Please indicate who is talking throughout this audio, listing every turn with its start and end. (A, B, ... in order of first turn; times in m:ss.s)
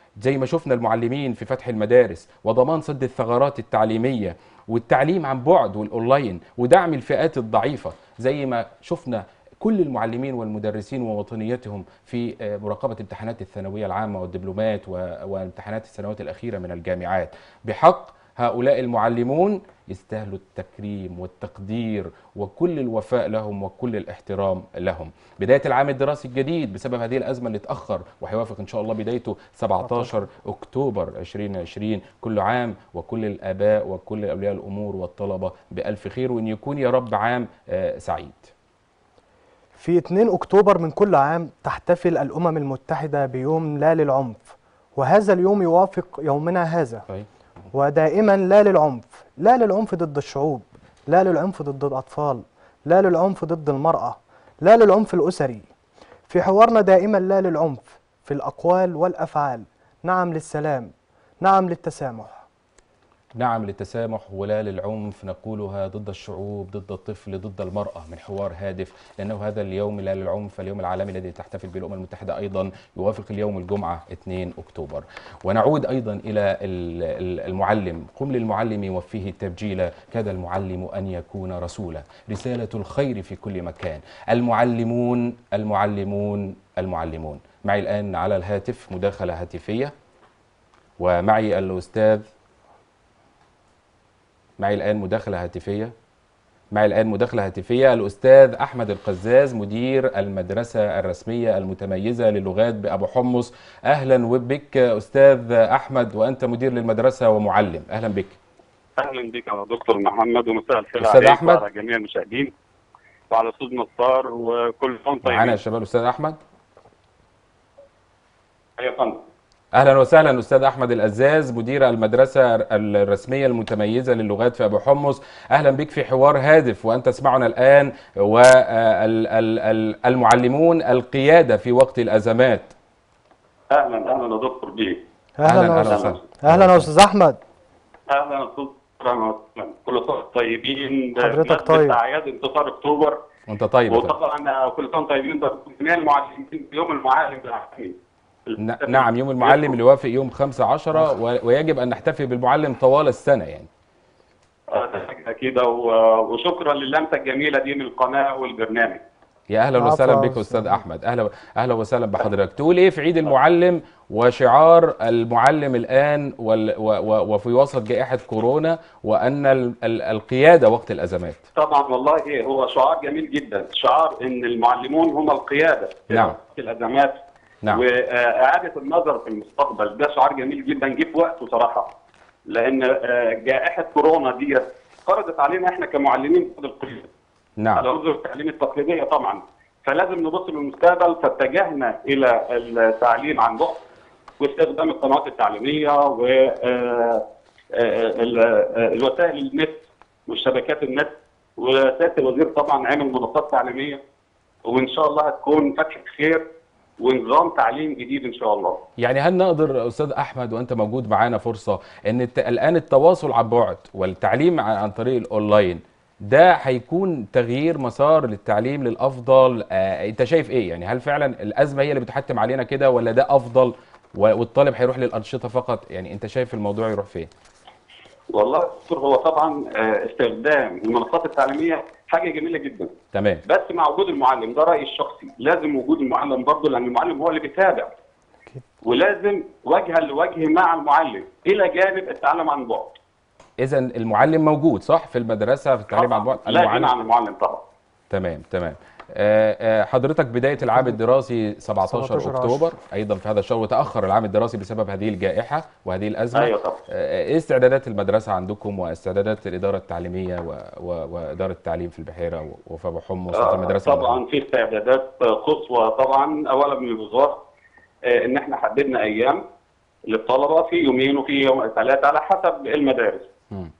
0:00.2-0:38.5 A
0:39.8-0:47.1 B
0:47.7-0:55.7 B
0:56.3-1:02.4 B
1:03.4-1:29.9 A
1:31.0-1:32.3 A
1:34.6-1:35.9 A
1:36.7-1:48.4 A
1:49.0-1:52.5 C
1:51.0-1:51.6 A
1:53.3-1:55.6 C
1:55.2-1:56.4 A
1:58.8-1:59.2 C
1:59.7-2:12.7 A
2:13.7-2:15.0 C
2:15.4-2:17.4 B
2:15.4-2:16.9 A
2:15.8-2:16.2 C
2:18.1-2:23.2 C
2:21.2-2:22.0 B
2:23.5-2:24.1 A
2:23.9-2:27.9 C
2:28.4-2:29.8 C
2:28.6-2:33.7 A
2:34.7-2:39.0 C
2:39.5-2:51.4 A
2:39.8-2:40.8 B
2:51.5-3:01.9 C
2:56.1-2:56.4 A
3:02.5-3:07.1 C
3:07.6-3:07.8 A
3:07.8-3:13.8 C
3:14.4-3:24.0 C
3:24.6-3:26.4 C
3:27.0-3:28.8 C
3:29.0-3:47.3 A
3:48.3-3:52.9 C
3:53.1-3:53.4 A
3:53.4-3:57.9 C
3:58.8-4:03.0 C
4:03.6-4:06.9 A
4:05.9-4:07.6 C
4:08.1-4:24.2 A
4:11.9-4:12.6 B
4:16.3-4:16.8 C
4:23.3-4:27.4 C
4:28.0-4:29.4 C
4:30.1-4:33.3 C